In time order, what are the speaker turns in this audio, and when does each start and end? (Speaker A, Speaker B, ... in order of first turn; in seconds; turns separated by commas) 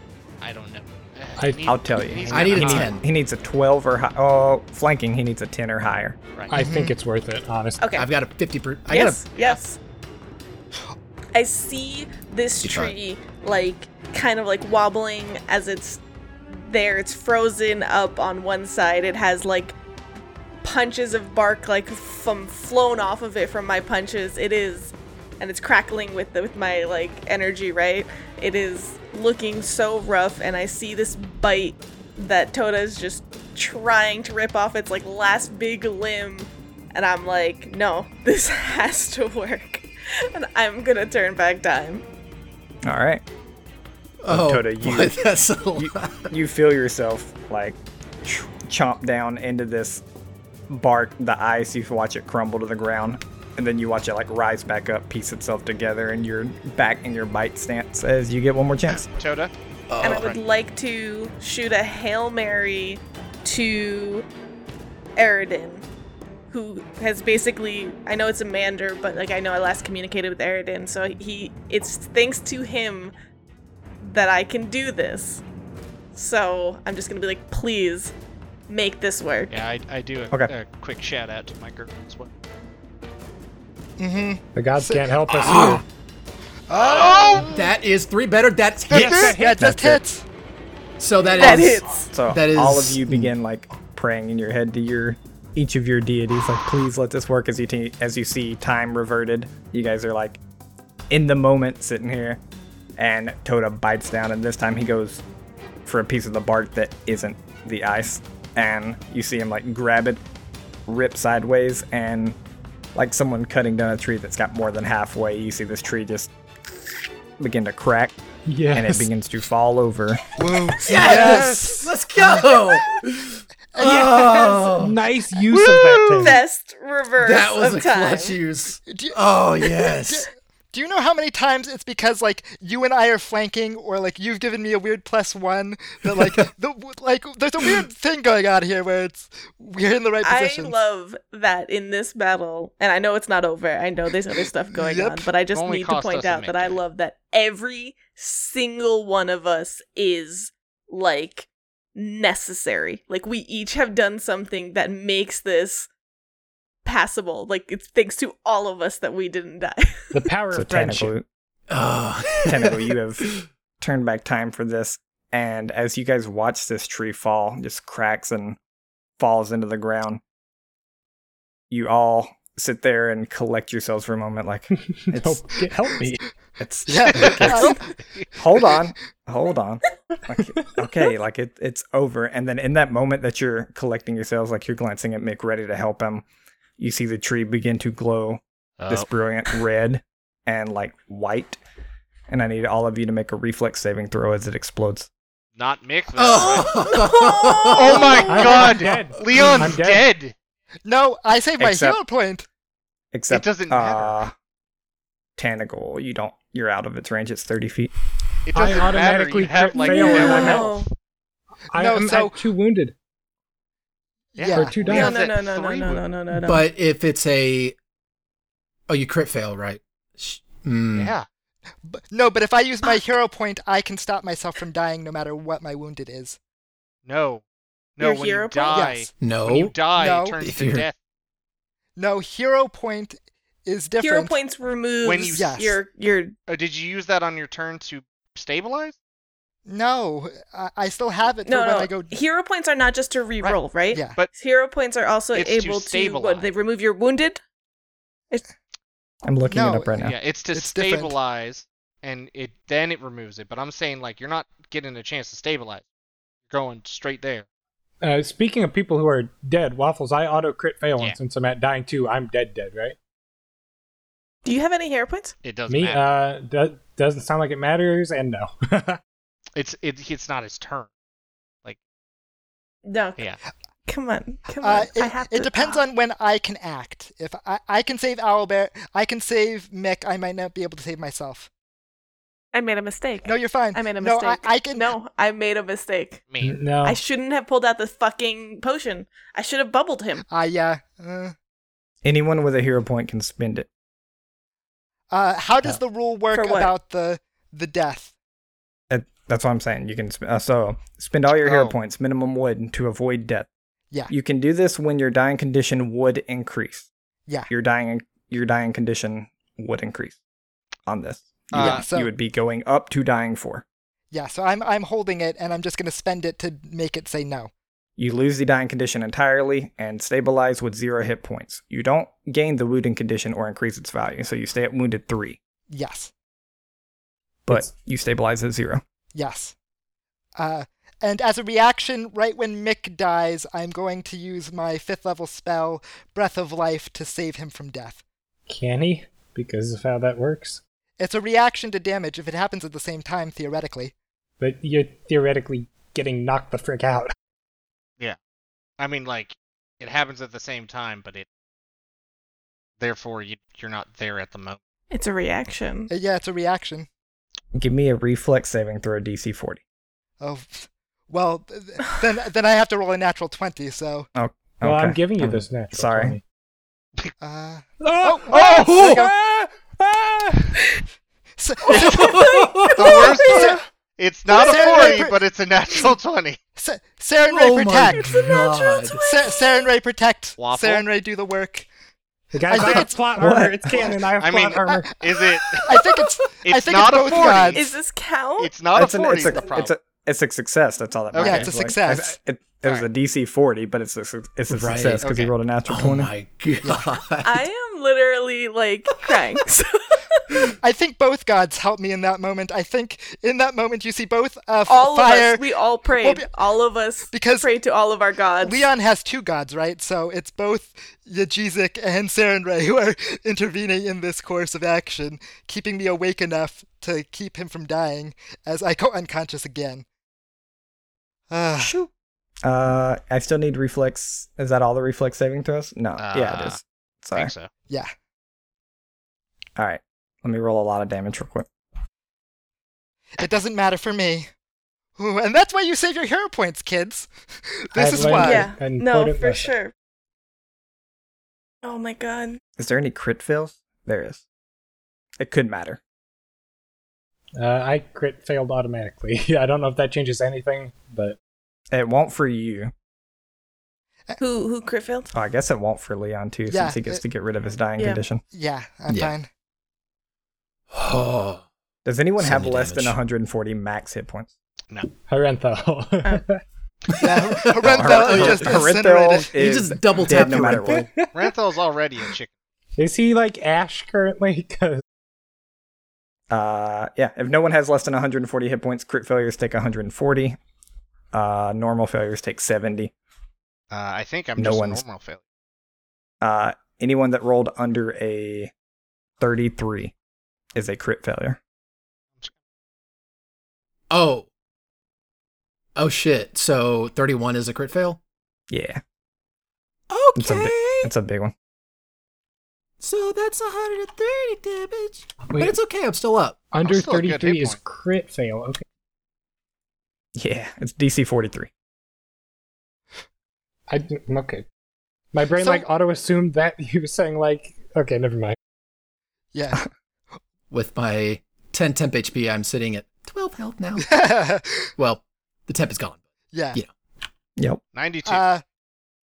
Speaker A: 0.4-3.0, Speaker B: 1.4-3.0, Speaker C: 1.7-6.2, Speaker D: 2.3-3.0, Speaker B: 6.5-7.8, Speaker E: 6.5-6.9, Speaker F: 7.8-8.1, Speaker D: 8.0-9.2, Speaker F: 8.9-9.8, Speaker F: 11.3-19.8, Speaker D: 12.6-12.9, Speaker F: 20.6-42.0, Speaker C: 42.9-43.2, Speaker D: 44.2-46.3, Speaker C: 44.3-45.2, Speaker C: 45.8-50.0, Speaker C: 50.7-59.1, Speaker A: 59.1-59.5, Speaker D: 59.9-60.4, Speaker F: 60.0-64.3, Speaker F: 65.2-65.8, Speaker F: 66.5-73.1, Speaker F: 74.0-75.4, Speaker F: 76.2-78.1, Speaker F: 78.7-79.6, Speaker A: 79.5-82.3, Speaker E: 84.0-85.1, Speaker B: 84.5-85.8, Speaker D: 85.3-85.8, Speaker E: 86.7-87.7, Speaker A: 86.7-87.5, Speaker D: 87.4-89.3, Speaker B: 88.9-90.0, Speaker A: 88.9-89.4, Speaker E: 89.0-90.2, Speaker D: 91.0-93.3, Speaker F: 91.4-92.1, Speaker C: 92.1-100.4, Speaker C: 101.1-102.4, Speaker C: 103.0-105.2, Speaker C: 105.8-110.2, Speaker C: 110.9-112.4, Speaker C: 113.0-116.3, Speaker C: 117.4-118.2, Speaker B: 118.5-119.1, Speaker C: 118.7-120.2, Speaker E: 120.4-121.8, Speaker D: 120.8-125.0, Speaker B: 120.9-121.8, Speaker E: 123.8-124.1, Speaker B: 123.8-126.4, Speaker D: 125.5-126.4, Speaker F: 126.2-128.3, Speaker D: 127.2-130.3, Speaker E: 128.9-140.8, Speaker D: 136.1-136.5, Speaker F: 140.2-155.9, Speaker E: 144.4-145.3, Speaker A: 145.5-146.8, Speaker F: 156.8-160.2, Speaker B: 160.1-161.1, Speaker C: 160.5-161.2, Speaker D: 161.7-163.5, Speaker C: 162.5-168.6, Speaker C: 169.2-170.2, Speaker C: 171.7-175.6, Speaker B: 174.8-176.2, Speaker C: 176.6-177.8, Speaker E: 176.9-177.9, Speaker A: 177.2-177.6, Speaker C: 178.3-186.2, Speaker C: 186.8-191.6, Speaker A: 188.8-189.1, Speaker C: 192.3-195.1, Speaker A: 195.6-197.0, Speaker D: 196.2-198.3, Speaker F: 196.9-198.2, Speaker A: 197.7-200.3, Speaker B: 198.3-200.1, Speaker E: 200.9-202.5, Speaker C: 201.6-202.0, Speaker C: 203.1-204.3, Speaker A: 203.3-204.2, Speaker C: 205.4-207.9, Speaker A: 208.5-210.8, Speaker B: 208.5-210.8, Speaker F: 209.7-210.9, Speaker B: 211.7-212.9, Speaker E: 211.8-212.4, Speaker E: 214.3-214.8, Speaker A: 214.4-216.1, Speaker B: 214.5-215.2, Speaker F: 214.9-216.7, Speaker D: 216.3-217.8, Speaker D: 218.9-221.2, Speaker A: 220.9-221.3, Speaker E: 221.8-226.4, Speaker A: 227.1-227.4, Speaker A: 228.0-230.9, Speaker F: 228.0-228.9, Speaker E: 228.7-229.1, Speaker D: 229.2-230.9, Speaker E: 229.9-230.4, Speaker E: 232.0-234.4, Speaker F: 234.0-236.3, Speaker A: 235.0-235.5, Speaker E: 235.3-235.8, Speaker A: 236.5-238.9, Speaker E: 239.7-242.2, Speaker F: 241.4-247.4, Speaker E: 243.9-244.2, Speaker A: 245.3-246.5, Speaker C: 249.2-250.2, Speaker E: 249.5-250.0, Speaker A: 250.0-255.8, Speaker E: 250.5-251.2, Speaker A: 256.5-257.5, Speaker B: 258.0-263.0, Speaker F: 264.4-265.3, Speaker A: 265.4-266.1, Speaker B: 265.7-269.0, Speaker A: 269.6-270.9, Speaker F: 272.9-273.2, Speaker F: 273.9-275.8, Speaker E: 274.6-281.5, Speaker F: 282.5-286.2, Speaker E: 283.2-284.9, Speaker A: 286.3-286.6, Speaker B: 286.4-287.0, Speaker F: 286.8-290.2, Speaker E: 290.3-291.3, Speaker C: 292.0-293.7, Speaker E: 295.1-298.1, Speaker F: 296.3-296.7, Speaker C: 298.9-303.5, Speaker A: 301.4-301.8, Speaker C: 304.1-306.9, Speaker C: 307.5-310.2, Speaker C: 310.9-313.6, Speaker A: 311.5-311.9, Speaker E: 311.6-312.1, Speaker E: 314.1-317.5, Speaker C: 318.0-325.4, Speaker E: 325.7-326.1, Speaker C: 327.5-328.8, Speaker E: 329.1-329.5, Speaker E: 330.4-338.0, Speaker B: 338.5-340.6, Speaker E: 341.0-343.9, Speaker B: 344.4-347.1, Speaker A: 348.8-351.3, Speaker A: 352.8-354.6, Speaker F: 354.9-355.9, Speaker E: 355.9-356.9, Speaker C: 357.6-359.6, Speaker E: 360.2-364.1, Speaker C: 364.1-366.2, Speaker B: 364.6-366.2, Speaker E: 367.2-369.1, Speaker B: 367.8-370.6, Speaker D: 368.4-369.1, Speaker E: 371.4-373.6, Speaker D: 371.7-373.5, Speaker A: 371.7-372.0, Speaker A: 372.8-376.4, Speaker E: 374.3-375.2, Speaker E: 376.6-378.2, Speaker D: 377.2-379.1, Speaker F: 377.9-379.4, Speaker E: 379.0-381.7, Speaker A: 380.4-380.9, Speaker B: 382.3-385.0, Speaker E: 382.5-383.1, Speaker C: 383.2-383.8, Speaker E: 383.7-384.0, Speaker A: 384.2-385.8, Speaker E: 385.1-387.7, Speaker A: 386.4-387.7, Speaker F: 387.5-388.5, Speaker A: 388.4-389.7, Speaker C: 388.8-396.1, Speaker A: 391.1-391.5, Speaker E: 391.2-392.2, Speaker D: 394.5-395.1, Speaker A: 395.0-395.3, Speaker D: 395.7-397.5, Speaker F: 397.2-400.0, Speaker E: 400.6-405.5, Speaker F: 404.7-408.7, Speaker E: 406.0-406.3, Speaker E: 407.1-407.5, Speaker E: 408.4-419.9, Speaker E: 421.3-421.8, Speaker C: 421.6-421.9, Speaker C: 422.4-427.3, Speaker A: 426.0-426.6, Speaker A: 427.1-427.5, Speaker C: 429.6-431.5, Speaker E: 433.2-434.3, Speaker E: 435.0-438.5, Speaker B: 437.8-439.5, Speaker F: 438.1-439.7, Speaker F: 441.6-442.4, Speaker C: 442.6-444.2, Speaker C: 445.2-445.8, Speaker B: 447.4-451.2, Speaker C: 451.7-452.7, Speaker F: 454.2-455.1, Speaker C: 455.1-458.2, Speaker E: 456.5-457.0, Speaker E: 458.3-459.3, Speaker D: 458.9-459.1, Speaker D: 460.7-461.4, Speaker C: 461.9-464.3, Speaker D: 462.2-463.0, Speaker B: 465.1-466.4, Speaker D: 466.9-468.7, Speaker E: 467.0-469.4, Speaker C: 467.7-470.9, Speaker D: 469.4-470.9, Speaker B: 470.1-471.3, Speaker A: 471.1-472.3, Speaker B: 472.8-474.8, Speaker C: 476.3-480.4, Speaker C: 481.1-482.9, Speaker A: 483.7-485.2, Speaker C: 484.4-484.8, Speaker C: 486.2-488.5, Speaker C: 489.2-489.9, Speaker C: 490.6-491.4, Speaker D: 493.9-494.3, Speaker D: 495.8-498.0, Speaker C: 498.5-498.8, Speaker D: 499.9-500.9, Speaker C: 500.2-501.3, Speaker D: 502.8-506.5, Speaker B: 505.3-505.6, Speaker B: 506.5-508.6, Speaker A: 506.6-507.6, Speaker C: 510.2-511.5, Speaker B: 513.7-514.5, Speaker B: 515.1-518.4, Speaker E: 515.4-515.6, Speaker E: 519.3-519.6, Speaker D: 520.5-523.9, Speaker E: 523.8-524.7, Speaker D: 524.8-526.0, Speaker E: 526.3-526.6, Speaker C: 527.4-527.6, Speaker A: 527.8-528.2, Speaker E: 528.1-528.4